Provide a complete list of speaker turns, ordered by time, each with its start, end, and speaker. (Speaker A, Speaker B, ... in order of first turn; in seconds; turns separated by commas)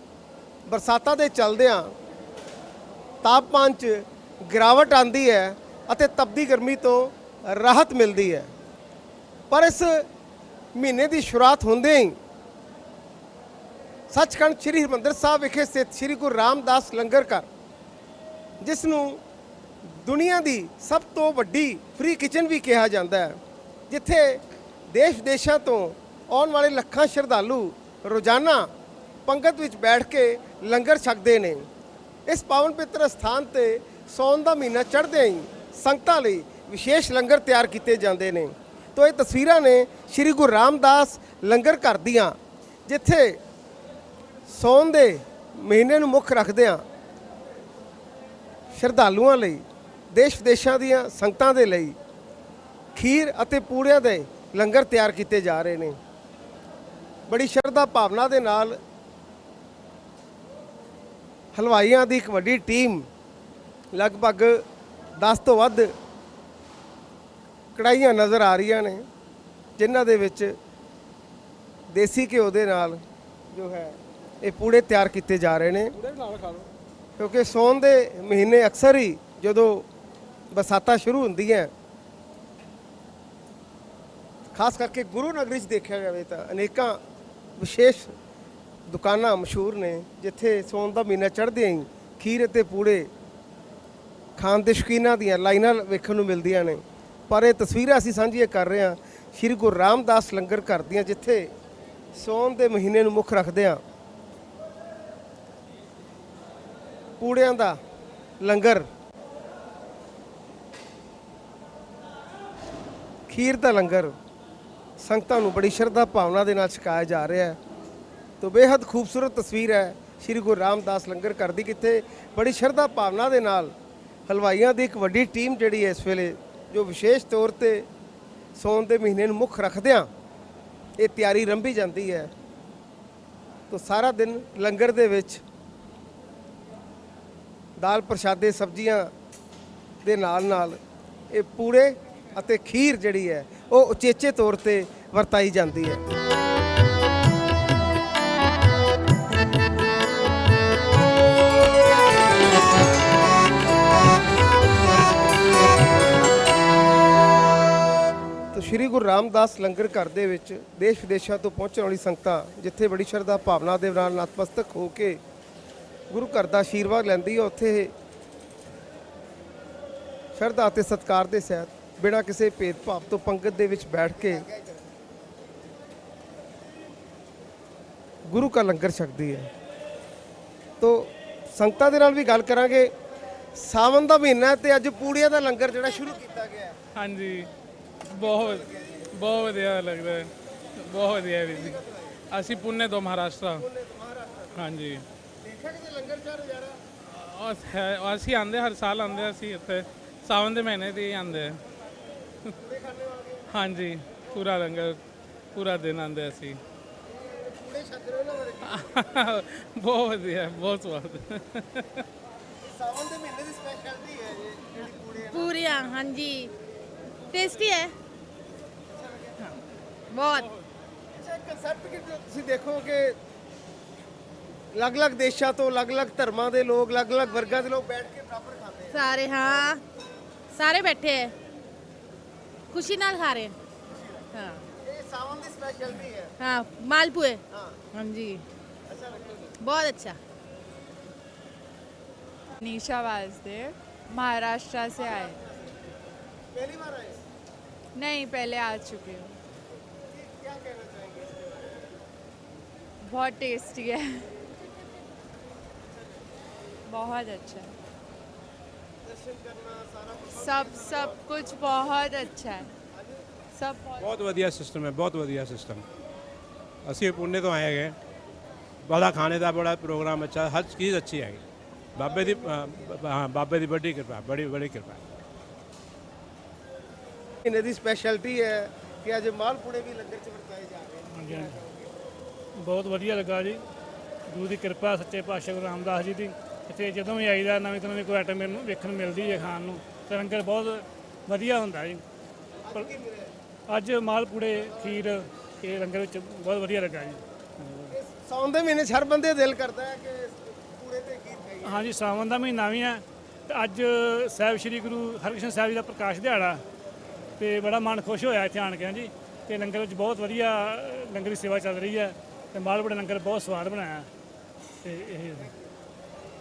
Speaker A: 0.7-1.9, Speaker A: 3.2-8.5, Speaker A: 9.5-10.1, Speaker A: 10.7-12.2, Speaker A: 14.1-17.5, Speaker A: 18.6-19.2, Speaker A: 19.9-23.4, Speaker A: 23.9-28.7, Speaker A: 29.3-31.7, Speaker A: 32.3-43.4, Speaker A: 44.5-46.8, Speaker A: 48.7-52.0, Speaker A: 53.0-56.0, Speaker A: 57.3-58.8, Speaker A: 61.5-63.1, Speaker A: 63.9-64.6, Speaker A: 65.2-65.9, Speaker A: 67.7-69.0, Speaker A: 69.8-70.5, Speaker A: 71.9-75.9, Speaker A: 77.2-79.8, Speaker A: 80.5-81.7, Speaker A: 84.5-87.0, Speaker A: 87.6-88.1, Speaker A: 88.9-93.1, Speaker A: 94.4-101.5, Speaker A: 102.1-103.8, Speaker A: 107.2-107.8, Speaker A: 108.4-108.9, Speaker A: 113.3-114.1, Speaker A: 115.0-117.6, Speaker A: 118.4-123.7, Speaker A: 124.3-127.9, Speaker A: 128.6-130.1, Speaker A: 131.0-132.3, Speaker A: 133.7-135.4, Speaker A: 137.8-139.1, Speaker A: 140.0-140.8, Speaker A: 141.3-146.0, Speaker A: 158.5-165.2, Speaker A: 166.1-167.9, Speaker A: 170.3-174.5, Speaker A: 178.3-179.5, Speaker A: 180.8-182.9, Speaker A: 183.5-186.8, Speaker B: 186.9-187.5, Speaker B: 188.1-190.3, Speaker A: 188.2-189.1, Speaker B: 190.8-191.8, Speaker A: 191.5-192.2, Speaker B: 192.3-193.6, Speaker A: 193.6-194.5, Speaker B: 194.6-195.0, Speaker A: 195.4-196.8, Speaker B: 197.1-201.6, Speaker A: 202.6-203.4, Speaker B: 203.5-205.0, Speaker B: 205.5-206.6, Speaker A: 207.1-208.9, Speaker B: 208.7-211.9, Speaker A: 212.6-215.8, Speaker C: 215.2-216.5, Speaker C: 217.3-217.9, Speaker A: 219.0-219.3, Speaker C: 220.1-220.5, Speaker A: 221.1-223.2, Speaker A: 224.7-229.7, Speaker C: 228.9-229.8, Speaker C: 230.5-231.3, Speaker C: 232.7-233.5, Speaker C: 234.3-234.6, Speaker A: 234.7-236.3, Speaker C: 236.4-237.4, Speaker A: 237.5-237.8, Speaker C: 237.9-238.4, Speaker A: 238.9-239.5, Speaker C: 239.6-240.2, Speaker D: 242.6-245.4, Speaker A: 245.0-245.6, Speaker A: 246.5-247.2, Speaker D: 247.9-249.3, Speaker A: 250.1-251.7, Speaker D: 253.0-254.3, Speaker D: 256.9-257.7, Speaker A: 259.0-261.2, Speaker D: 260.3-262.7, Speaker A: 262.9-263.2, Speaker D: 263.5-264.1, Speaker E: 264.0-265.8, Speaker E: 266.9-267.9, Speaker E: 268.9-271.4, Speaker E: 271.9-275.0, Speaker A: 277.4-281.9, Speaker F: 281.1-281.6, Speaker F: 282.6-283.6, Speaker F: 284.3-292.0, Speaker A: 292.7-293.3, Speaker F: 293.7-297.9, Speaker A: 297.9-301.9, Speaker F: 301.6-306.6, Speaker F: 307.4-314.1, Speaker F: 314.8-315.5